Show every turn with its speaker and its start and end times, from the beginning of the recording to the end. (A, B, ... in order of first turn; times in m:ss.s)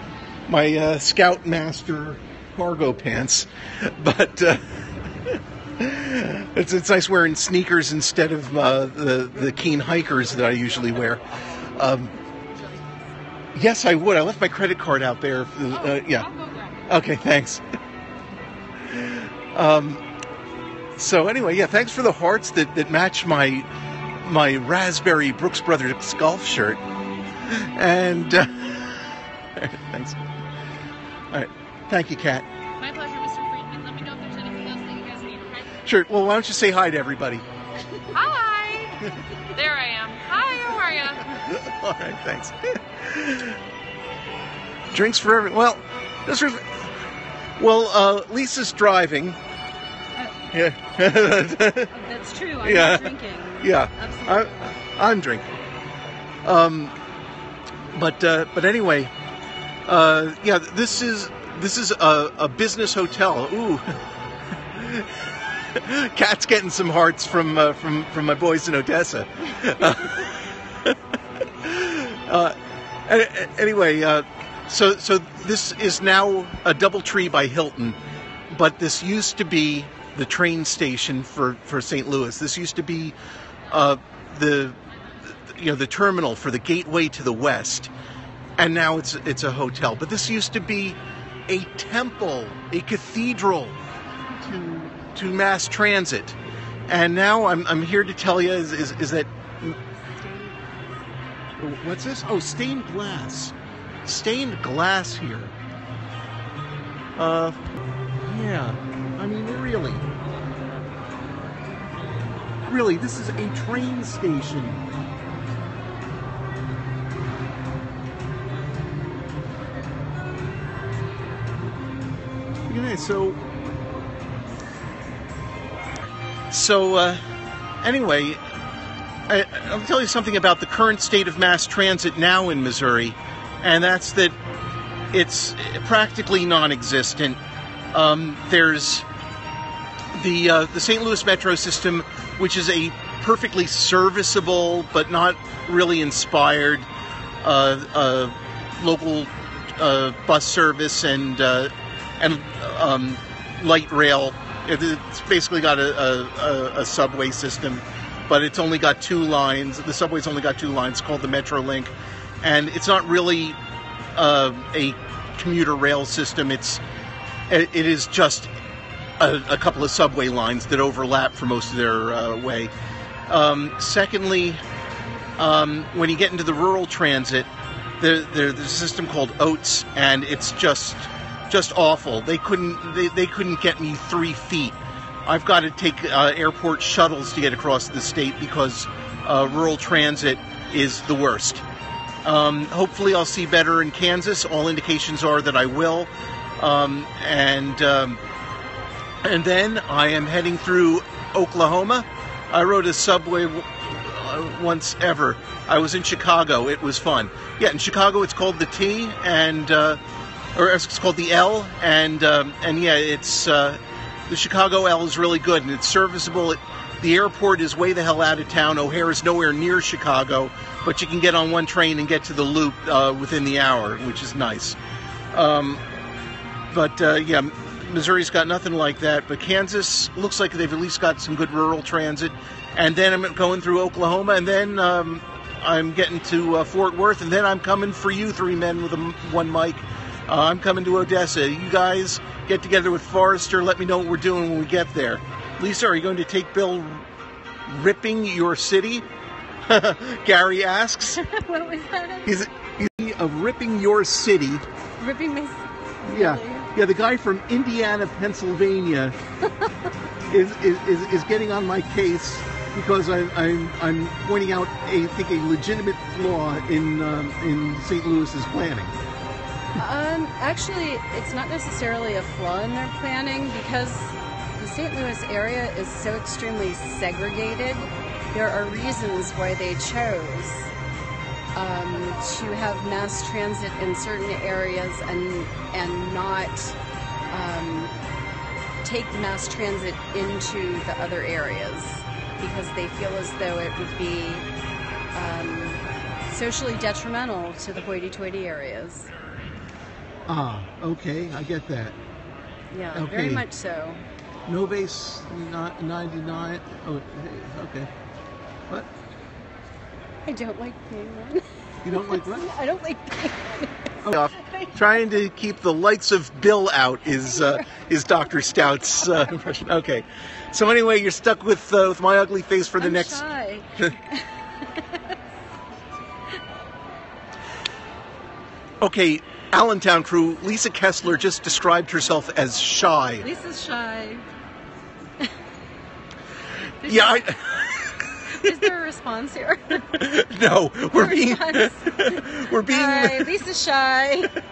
0:00.5-0:11.2 A
0:11.8-0:12.2 A
0:13.6-0:16.3 A
0:15.9-0:16.8 B
0:16.9-0:17.6 A
0:18.9-0:20.0 A
0:21.0-0:23.7 A
0:24.2-0:26.8 A
0:27.4-0:30.2 A
0:31.3-0:32.5 A
0:32.8-0:35.7 B
0:35.9-0:37.4 A
0:38.1-0:41.3 B
0:41.2-0:43.6 A
0:44.9-0:46.9 A
0:47.6-0:49.4 A
0:50.5-0:51.9 A
0:51.9-0:54.6 C
0:52.6-0:55.5 A
0:56.4-0:57.0 A
0:57.9-0:59.1 A
0:59.9-1:04.0 A
1:04.7-1:11.0 A
1:11.6-1:18.0 A
1:18.5-1:23.2 A
1:23.7-1:27.9 A
1:28.6-1:33.8 A
1:34.4-1:36.4 A
1:36.9-1:39.8 A
1:40.0-1:40.9 C
1:41.6-1:43.5 A
1:44.1-1:45.6 A
1:47.2-1:47.6 A
1:48.2-1:50.1 A
1:52.7-1:54.8 A
2:02.7-2:03.4 A
2:06.5-2:07.2 A
2:07.8-2:08.4 A
2:09.3-2:14.4 A
2:15.1-2:17.4 A
2:17.9-2:19.1 A
2:20.1-2:26.9 A
2:27.4-2:43.6 A
2:44.2-2:46.8 A
2:47.5-2:48.5 A
2:49.2-2:52.7 A
2:53.3-2:54.6 A
2:55.4-3:11.6 A
3:12.2-3:18.2 A
3:19.2-3:30.0 A
3:30.5-3:44.8 A
3:45.3-3:45.8 A
3:46.7-4:07.1 A
4:07.7-4:09.1 A
4:09.6-4:11.2 A
4:11.2-4:12.3 C
4:12.3-4:14.6 A
4:15.0-4:16.7 C
4:16.0-4:19.2 A
4:20.3-4:28.9 A
4:29.8-4:40.7 C
4:41.6-4:46.8 C
4:47.3-4:47.9 C
4:48.8-4:54.4 C
4:55.1-4:59.1 C
5:00.3-5:02.0 A
5:02.7-5:04.0 C
5:02.9-5:03.4 A
5:04.5-5:07.9 A
5:10.2-5:15.0 C
5:11.8-5:12.5 A
5:14.0-5:23.2 A
5:17.1-5:17.7 C
5:18.3-5:19.3 C
5:22.8-5:25.1 C
5:28.8-5:33.2 A
5:33.2-5:34.2 C
5:36.8-5:37.4 C
5:36.8-5:37.9 A
5:38.3-5:39.9 C
5:39.9-5:43.3 A
5:40.9-5:44.4 C